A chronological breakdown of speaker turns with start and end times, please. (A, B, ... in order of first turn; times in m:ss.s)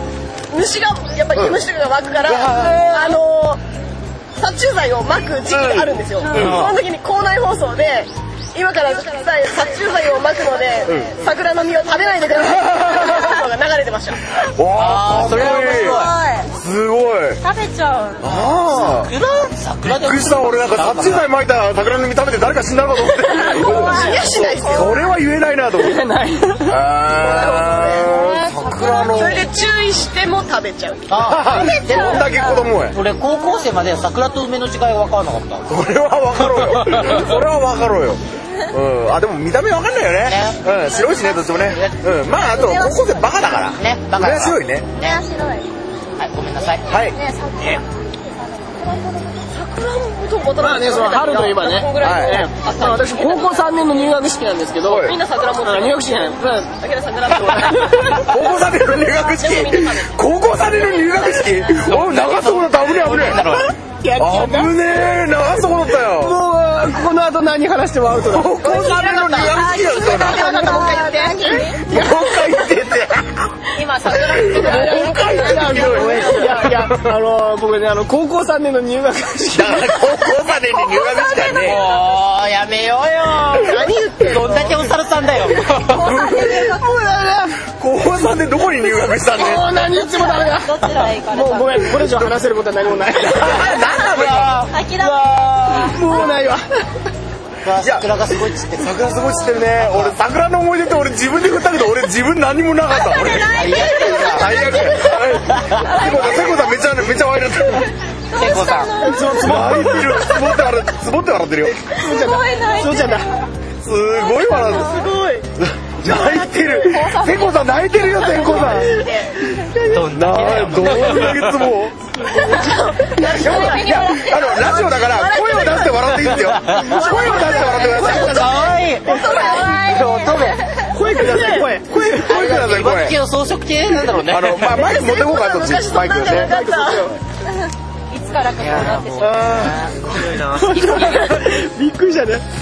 0:00.5-0:03.6 A
0:02.3-0:03.0 B
0:04.4-0:14.2 A
0:05.5-0:06.6 B
0:06.3-0:06.8 C
0:10.9-0:11.1 B
0:14.4-0:16.0 B
0:14.7-0:16.2 C
0:15.7-0:16.5 D
0:16.5-0:17.4 B
0:17.4-0:18.4 D
0:18.2-0:19.1 B
0:18.7-0:21.3 C
0:19.8-0:26.0 B
0:23.3-0:25.0 A
0:23.5-0:24.9 D
0:25.8-0:26.8 E
0:26.6-0:29.5 B
0:27.2-0:32.4 A
0:28.2-0:28.7 D
0:31.1-0:35.7 C
0:31.2-0:33.0 B
0:35.7-0:38.2 B
0:36.4-0:37.2 C
0:38.7-0:44.9 B
0:40.3-0:40.6 C
0:41.0-0:41.5 D
0:41.7-0:42.0 C
0:42.4-0:43.7 D
0:43.7-0:45.2 C
0:45.0-0:45.7 D
0:46.2-0:46.8 C
0:46.9-0:47.2 B
0:46.9-0:47.8 D
0:48.4-0:49.4 D
0:49.4-0:53.6 A
0:50.6-0:58.2 E
0:52.0-0:52.4 B
0:54.8-0:55.2 B
0:54.9-0:58.2 A
0:58.1-1:03.5 B
0:59.1-1:00.1 A
1:01.8-1:03.7 C
1:03.4-1:04.7 E
1:04.2-1:06.4 B
1:06.0-1:08.6 E
1:08.2-1:10.7 B
1:08.6-1:11.8 D
1:08.7-1:11.7 A
1:11.6-1:16.8 B
1:11.8-1:12.4 E
1:13.7-1:16.5 D
1:14.5-1:20.2 E
1:15.8-1:16.7 A
1:19.5-1:21.8 B
1:20.7-1:21.6 D
1:21.6-1:26.1 C
1:23.5-1:24.9 A
1:25.8-1:27.0 D
1:26.0-1:26.6 B
1:26.1-1:27.6 E
1:27.7-1:29.7 B
1:29.3-1:33.8 E
1:29.9-1:32.0 D
1:33.2-1:34.7 B
1:33.8-1:36.0 D
1:34.0-1:34.7 C
1:34.9-1:37.1 E
1:37.6-1:39.0 C
1:37.8-1:47.9 B
1:39.7-1:40.1 C
1:42.9-1:46.6 D
1:43.5-1:44.7 C
1:44.0-1:44.2 A
1:45.5-1:45.8 C
1:48.3-1:48.9 C
1:48.3-1:49.5 D
1:49.0-1:50.4 E
1:49.3-1:51.8 B
1:51.9-1:53.3 E
1:51.9-1:53.2 D
1:52.2-1:52.7 A
1:53.8-1:55.0 B
1:54.5-1:55.4 A
1:55.6-1:58.9 B
1:56.2-1:58.1 D
1:58.0-1:59.6 A
1:59.8-2:01.7 C
2:00.0-2:01.9 B
2:02.3-2:10.0 A
2:02.3-2:03.7 E
2:03.3-2:08.4 B
2:03.4-2:04.4 D
2:06.5-2:06.8 C
2:06.8-2:09.2 E
2:07.9-2:10.6 C
2:09.1-2:11.0 D
2:10.9-2:12.2 E
2:11.1-2:11.7 A
2:11.8-2:13.2 B
2:12.2-2:14.7 C
2:14.2-2:16.5 B
2:14.7-2:17.1 A
2:16.1-2:17.2 E
2:17.5-2:19.5 D
2:18.6-2:21.5 C
2:19.2-2:20.4 B
2:20.4-2:22.4 E